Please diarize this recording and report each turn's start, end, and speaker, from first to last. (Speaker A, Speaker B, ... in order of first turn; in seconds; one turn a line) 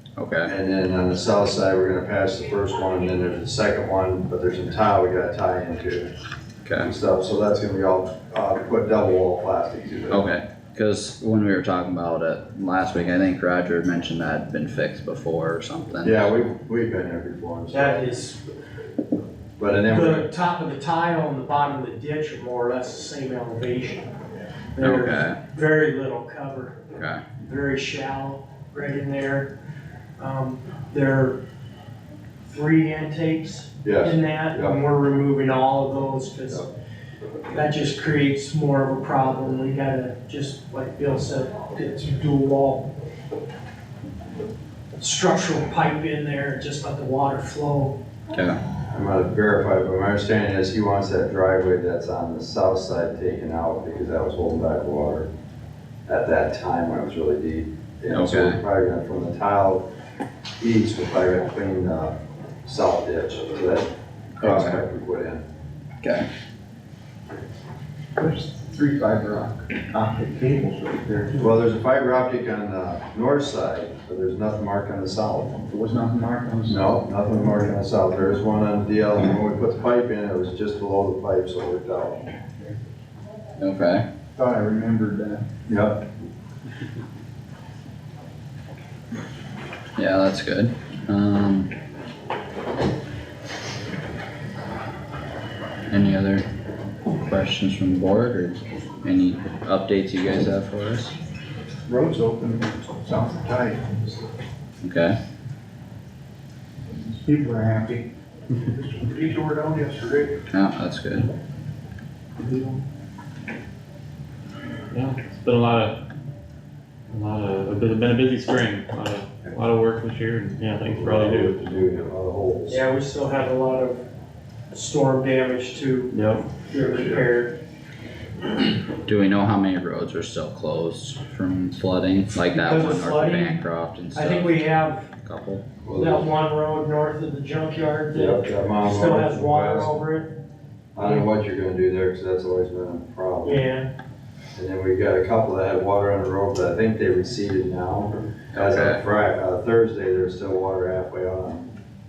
Speaker A: 0.2-0.5
Speaker B: 0.5-6.1
Speaker A: 6.7-6.9
Speaker B: 6.8-10.2
Speaker A: 10.1-16.4
Speaker B: 16.0-18.2
Speaker C: 17.7-18.4
Speaker B: 19.6-20.3
Speaker C: 19.8-24.1
Speaker C: 24.8-26.8
Speaker A: 24.8-25.4
Speaker A: 27.0-27.2
Speaker C: 27.4-29.5
Speaker C: 30.2-31.4
Speaker C: 32.4-36.7
Speaker B: 33.8-34.8
Speaker C: 37.5-42.9
Speaker C: 45.0-48.0
Speaker A: 48.3-48.6
Speaker B: 48.9-55.3
Speaker B: 56.1-59.8
Speaker A: 58.1-58.6
Speaker B: 60.6-63.9
Speaker B: 64.4-65.4
Speaker A: 64.4-64.8
Speaker A: 66.0-66.3
Speaker D: 68.2-71.5
Speaker B: 71.4-75.6
Speaker D: 75.6-76.8
Speaker B: 76.7-82.3
Speaker A: 83.6-84.0
Speaker D: 84.4-85.5
Speaker B: 85.7-86.0
Speaker A: 90.0-91.7
Speaker A: 95.9-96.5
Speaker A: 97.2-101.2
Speaker D: 101.9-104.1
Speaker A: 104.8-105.2
Speaker D: 107.2-110.3
Speaker A: 110.5-111.3
Speaker D: 112.4-112.8
Speaker E: 114.9-116.0
Speaker E: 117.1-121.6
Speaker B: 120.9-122.8
Speaker C: 122.7-124.0
Speaker C: 124.7-126.2
Speaker E: 126.1-126.5
Speaker C: 126.7-127.6
Speaker A: 129.1-134.6
Speaker C: 132.5-135.1
Speaker A: 135.2-135.6
Speaker B: 135.8-136.3
Speaker C: 135.9-140.3
Speaker B: 138.1-139.9
Speaker B: 140.9-143.7
Speaker C: 141.0-141.3
Speaker C: 143.4-143.9
Speaker B: 144.6-151.7
Speaker A: 148.5-149.0